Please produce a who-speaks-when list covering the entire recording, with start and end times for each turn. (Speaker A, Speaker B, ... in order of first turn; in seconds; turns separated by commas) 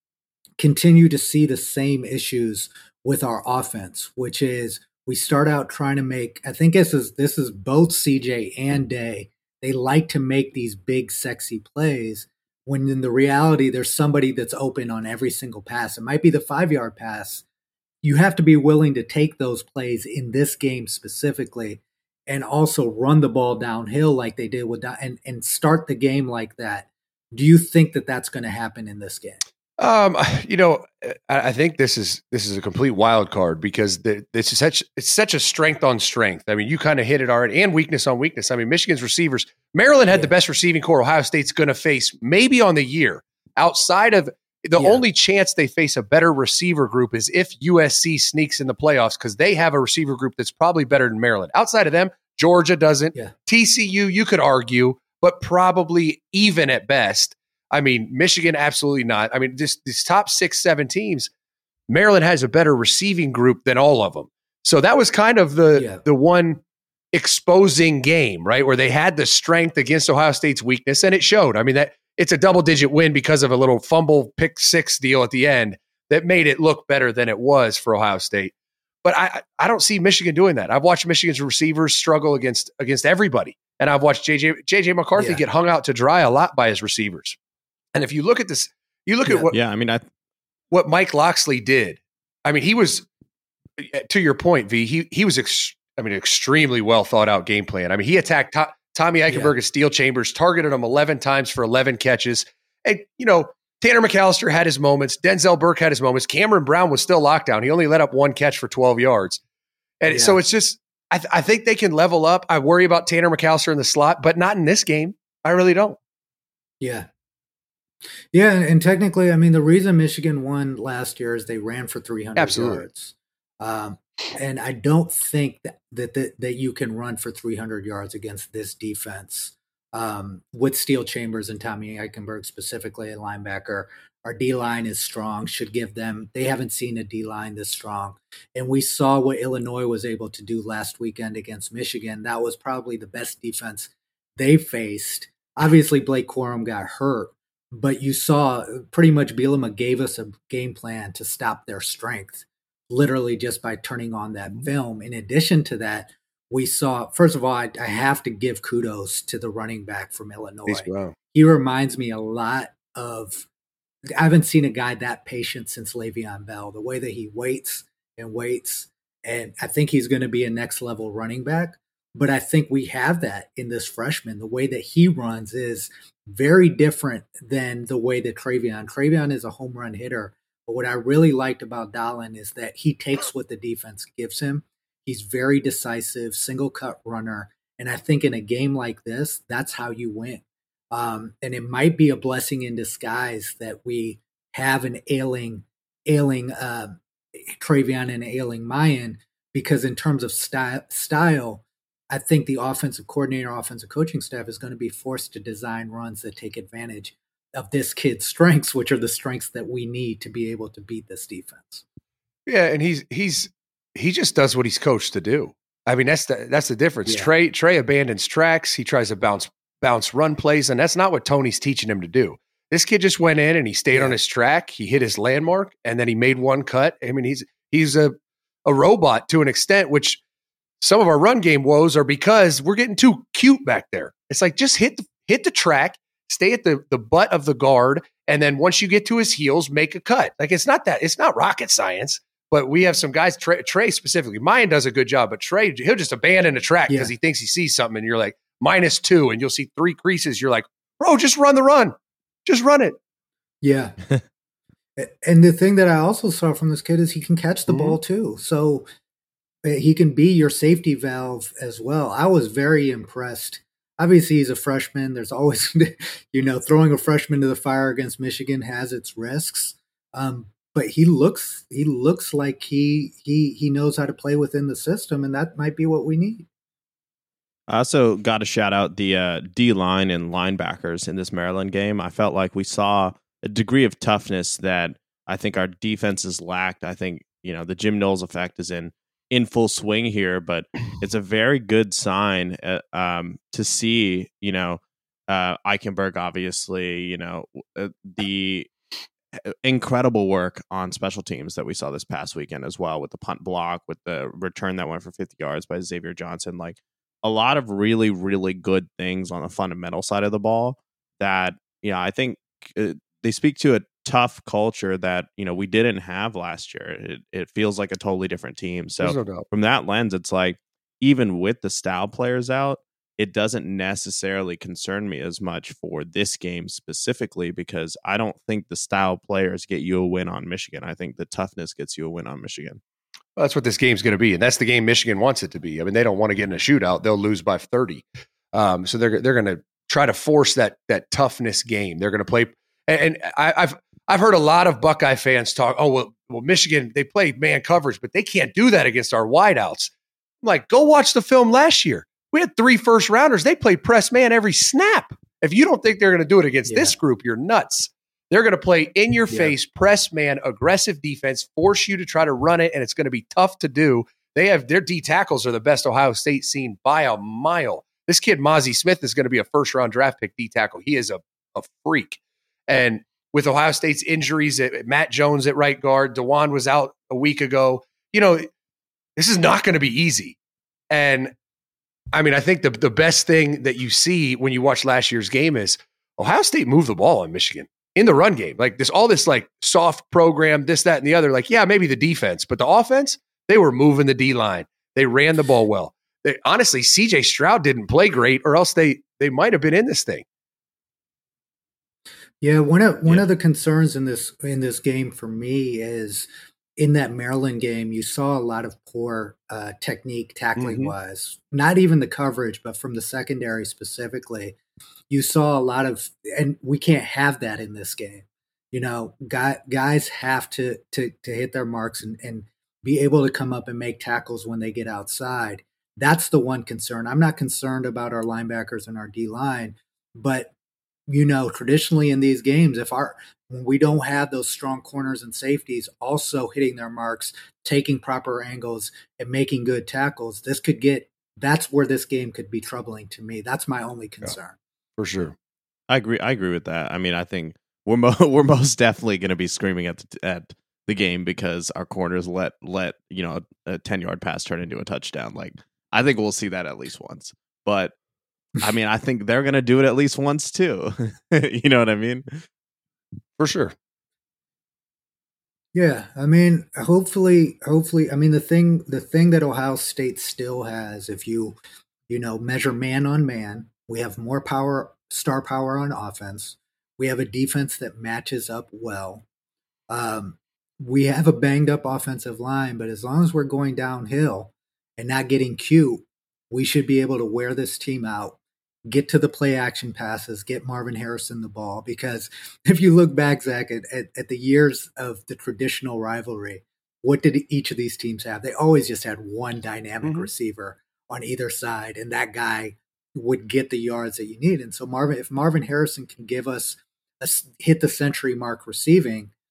Speaker A: 0.6-17.4, Speaker A: 18.0-29.4, Speaker B: 29.8-61.3, Speaker A: 40.1-40.3, Speaker A: 44.8-45.0, Speaker B: 61.9-66.6, Speaker A: 65.7-66.0, Speaker B: 67.1-78.5, Speaker B: 79.0-87.4, Speaker A: 85.2-85.4, Speaker B: 87.9-89.5, Speaker C: 89.5-90.0, Speaker B: 90.7-93.0, Speaker B: 93.8-109.4, Speaker A: 99.3-99.5, Speaker B: 110.0-116.0, Speaker A: 110.1-110.4, Speaker A: 116.8-117.1, Speaker A: 118.3-163.5, Speaker B: 122.3-122.8, Speaker B: 160.7-161.1, Speaker A: 164.2-211.8, Speaker B: 212.4-230.2, Speaker A: 217.1-217.3, Speaker B: 230.8-253.0, Speaker A: 246.9-247.1, Speaker A: 253.6-253.9, Speaker A: 255.0-258.9, Speaker B: 257.7-258.0, Speaker A: 259.6-276.5, Speaker C: 277.7-298.7, Speaker C: 299.4-332.8, Speaker B: 319.0-319.4, Speaker B: 333.4-378.5, Speaker A: 356.6-356.9, Speaker B: 379.1-380.4, Speaker B: 380.9-381.3, Speaker B: 382.1-400.2, Speaker A: 402.4-414.6, Speaker B: 410.6-410.9, Speaker A: 415.1-430.5, Speaker A: 431.1-444.6, Speaker B: 445.0-445.3, Speaker C: 445.9-457.9, Speaker C: 458.6-462.4, Speaker B: 463.4-463.7, Speaker A: 465.7-471.6, Speaker A: 472.1-479.2, Speaker A: 479.9-509.3, Speaker B: 500.0-500.3